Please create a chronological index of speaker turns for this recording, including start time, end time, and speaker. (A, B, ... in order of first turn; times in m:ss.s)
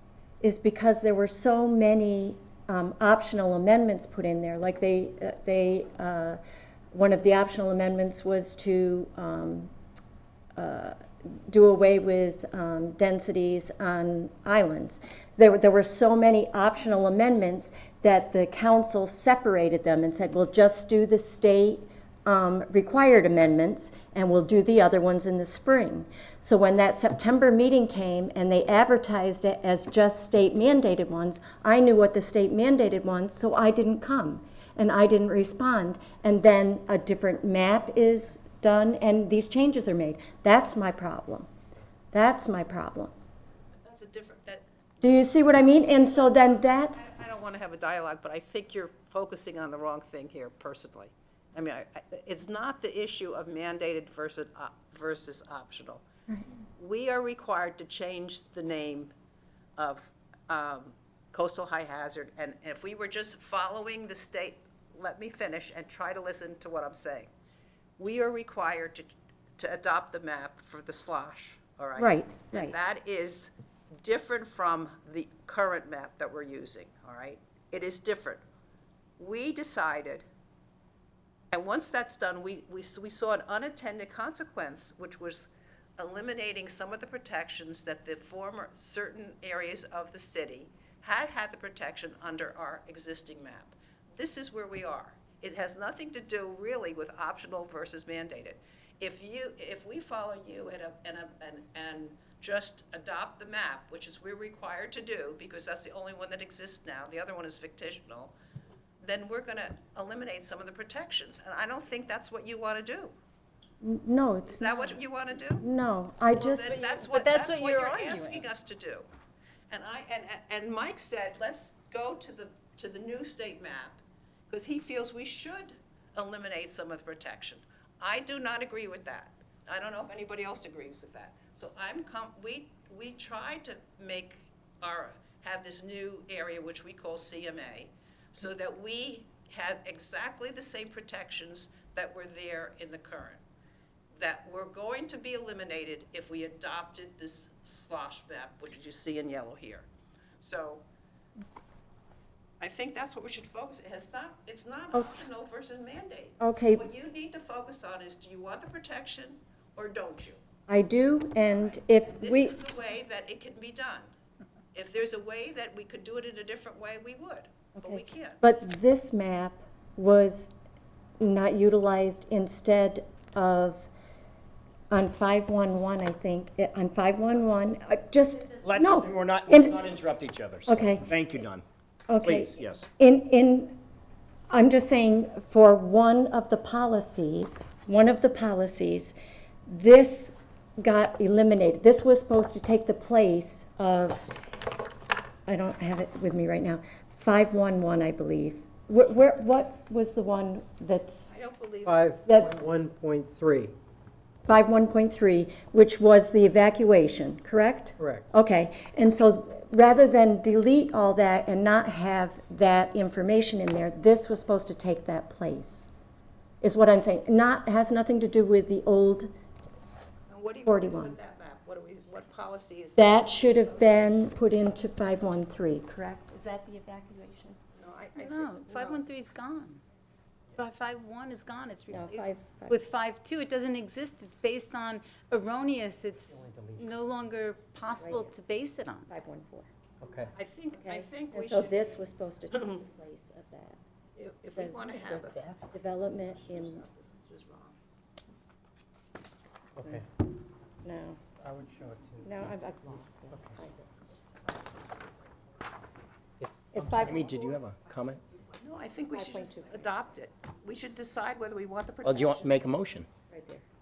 0:00.4-0:06.4 A
0:06.9-0:09.7 A
0:10.6-0:41.5 A
0:42.1-0:43.1 A
0:43.8-0:44.6 B
0:45.0-0:47.1 A
0:46.1-0:56.0 B
0:56.8-0:59.1 B
0:59.8-1:07.3 B
1:08.0-1:18.4 B
1:12.0-1:12.7 A
1:19.2-1:20.2 B
1:21.5-1:48.3 B
1:49.0-1:53.1 B
1:53.8-1:55.0 A
1:54.5-1:55.6 B
1:55.5-1:56.8 A
1:56.3-1:59.1 B
1:56.6-1:58.5 C
1:59.7-2:23.4 B
2:24.2-2:29.9 B
2:30.4-2:30.8 B
2:32.6-2:40.4 B
2:36.4-2:36.8 A
2:40.7-2:42.6 A
2:41.5-2:44.1 B
2:44.7-2:48.4 B
2:47.8-2:50.5 A
2:51.2-2:53.9 A
2:54.9-2:59.8 A
2:58.6-3:01.6 D
3:00.7-3:01.1 A
3:02.1-3:03.8 A
3:02.2-3:02.9 D
3:04.5-3:09.2 A
3:09.7-3:14.2 A
3:15.4-3:21.3 A
3:21.3-3:22.2 B
3:21.8-3:23.7 E
3:22.2-3:22.5 A
3:24.5-3:35.9 A
3:28.0-3:28.3 E
3:36.6-3:39.3 A
3:40.3-3:44.2 B
3:40.6-3:41.1 A
3:43.0-3:47.6 A
3:47.7-3:49.0 B
3:48.2-3:49.8 C
3:50.6-3:59.1 C
3:51.9-3:52.8 A
3:56.3-3:57.0 E
3:58.0-3:58.3 A
3:59.1-3:59.7 A
4:00.0-4:00.3 E
4:00.3-4:01.9 B
4:00.8-4:03.8 A
4:04.2-4:07.8 B
4:04.5-4:04.9 A
4:04.8-4:05.6 C
4:05.7-4:06.8 A
4:09.8-4:10.0 E
4:10.8-4:11.2 A
4:11.4-4:12.5 E
4:12.2-4:14.7 A
4:13.3-4:13.6 E
4:16.4-4:17.2 E
4:16.7-4:17.3 A
4:17.0-4:18.2 D
4:18.5-4:22.7 B
4:19.1-4:19.9 A
4:22.0-4:23.1 D
4:23.3-4:23.6 A